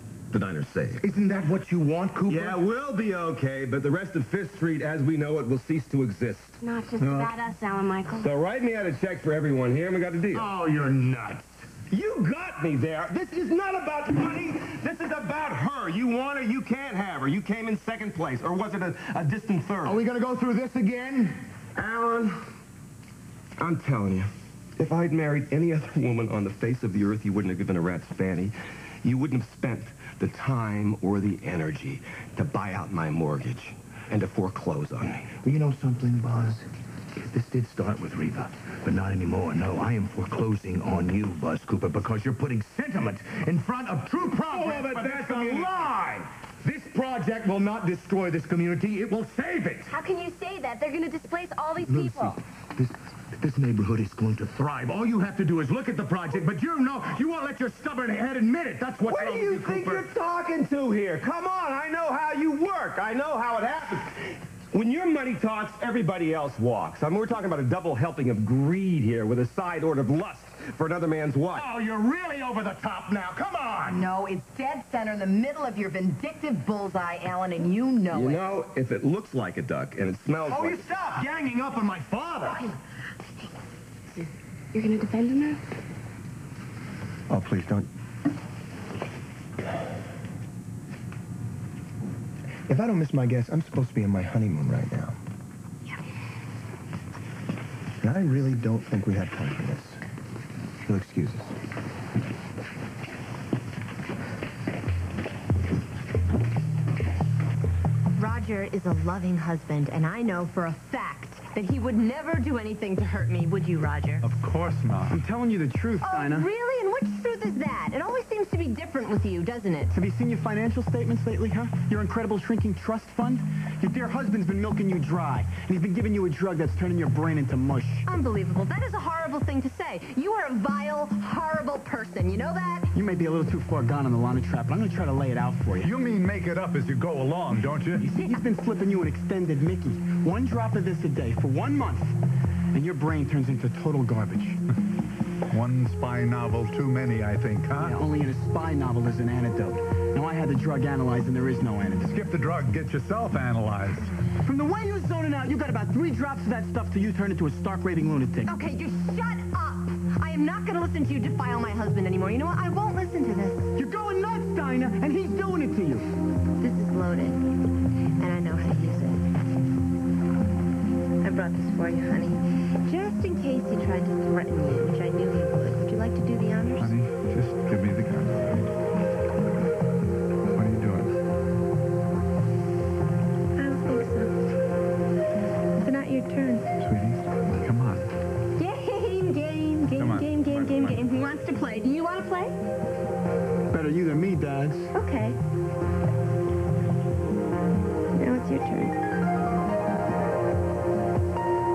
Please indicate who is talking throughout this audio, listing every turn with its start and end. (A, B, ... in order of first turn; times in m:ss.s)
0:00.3-0:01.0 A
0:01.0-0:02.6 B
0:02.2-0:06.6 A
0:06.6-0:08.3 C
0:08.1-0:10.5 A
0:10.3-0:11.8 B
0:11.8-0:20.0 A
0:19.8-0:21.4 B
0:21.8-0:22.5 A
0:23.6-0:35.4 A
0:35.4-0:49.9 B
0:44.5-0:44.8 D
0:49.9-0:52.2 D
0:51.9-1:00.1 B
0:59.0-1:04.2 A
1:04.7-1:11.7 A
1:11.5-1:14.1 B
1:13.9-1:18.6 E
1:18.1-1:20.9 A
1:20.5-1:22.7 B
1:24.1-1:25.6 C
1:27.3-1:27.9 F
1:32.7-1:35.2 F
1:38.0-1:40.0 F
1:40.8-1:41.5 F
1:48.2-1:54.3 D
1:54.2-1:55.2 G
1:55.1-1:56.5 H
1:56.0-2:00.0 D
1:59.9-2:08.1 H
2:08.1-2:12.9 D
2:12.9-2:15.9 H
2:15.8-2:18.0 G
2:18.0-2:22.2 H
2:22.7-2:24.6 H
2:25.5-2:28.0 G
2:27.8-2:32.2 H
2:32.0-2:34.1 G
2:34.4-2:38.5 H
2:38.5-2:43.7 D
2:43.8-2:46.0 H
2:46.6-2:47.4 D
2:48.2-2:49.3 D
2:51.2-2:57.0 D
2:56.8-2:58.7 G
3:00.5-3:01.1 G
3:03.6-3:04.4 D
3:05.8-3:06.7 D
3:06.8-3:08.1 G
3:08.6-3:12.6 D
3:10.0-3:11.0 G
3:13.7-3:14.9 H
3:14.9-3:15.4 D
3:18.1-3:18.9 D